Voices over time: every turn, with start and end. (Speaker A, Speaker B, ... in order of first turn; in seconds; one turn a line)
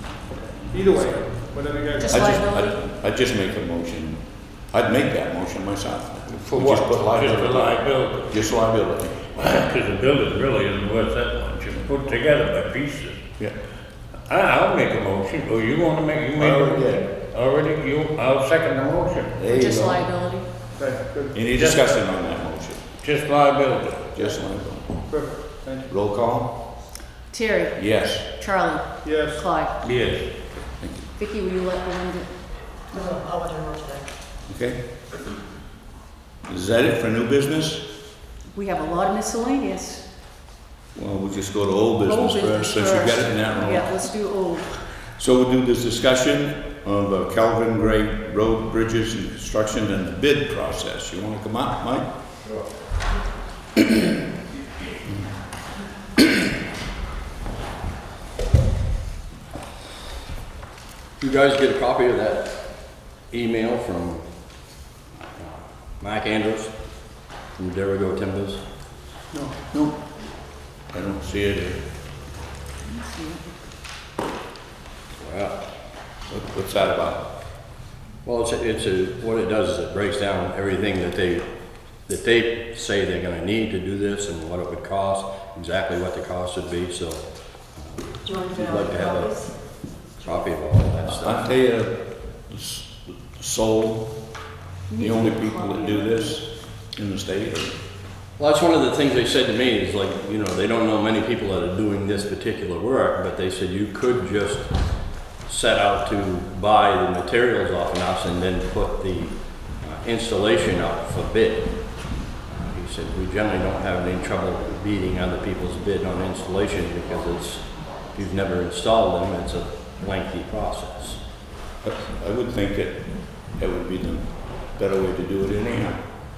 Speaker A: 0.6-2.1
Speaker B: 1.9-2.8
Speaker C: 2.1-9.3
Speaker D: 6.3-8.4
Speaker D: 9.3-13.2
Speaker D: 14.2-19.5
Speaker C: 16.4-17.1
Speaker C: 19.4-20.1
Speaker B: 19.4-20.5
Speaker A: 20.7-21.4
Speaker C: 21.3-22.8
Speaker D: 21.4-21.9
Speaker D: 23.0-24.1
Speaker C: 24.1-25.0
Speaker A: 25.1-25.9
Speaker C: 25.9-26.7
Speaker B: 27.3-29.8
Speaker C: 27.7-28.3
Speaker A: 29.0-29.4
Speaker D: 29.8-30.3
Speaker C: 30.7-31.1
Speaker B: 31.1-32.3
Speaker E: 32.9-34.1
Speaker C: 34.5-34.8
Speaker C: 36.5-37.9
Speaker B: 38.5-40.0
Speaker C: 40.9-44.1
Speaker B: 42.0-44.8
Speaker C: 45.1-52.1
Speaker F: 61.2-64.7
Speaker F: 65.4-66.7
Speaker F: 67.5-68.6
Speaker C: 69.7-70.0
Speaker C: 70.7-71.8
Speaker B: 72.8-73.5
Speaker F: 75.2-75.6
Speaker C: 76.3-77.2
Speaker F: 78.2-81.5
Speaker F: 82.0-87.2
Speaker F: 87.8-91.5
Speaker E: 88.2-89.8
Speaker C: 91.0-94.2
Speaker B: 94.9-96.4
Speaker C: 94.9-97.8
Speaker F: 98.4-104.7
Speaker F: 105.5-121.2
Speaker C: 121.8-126.1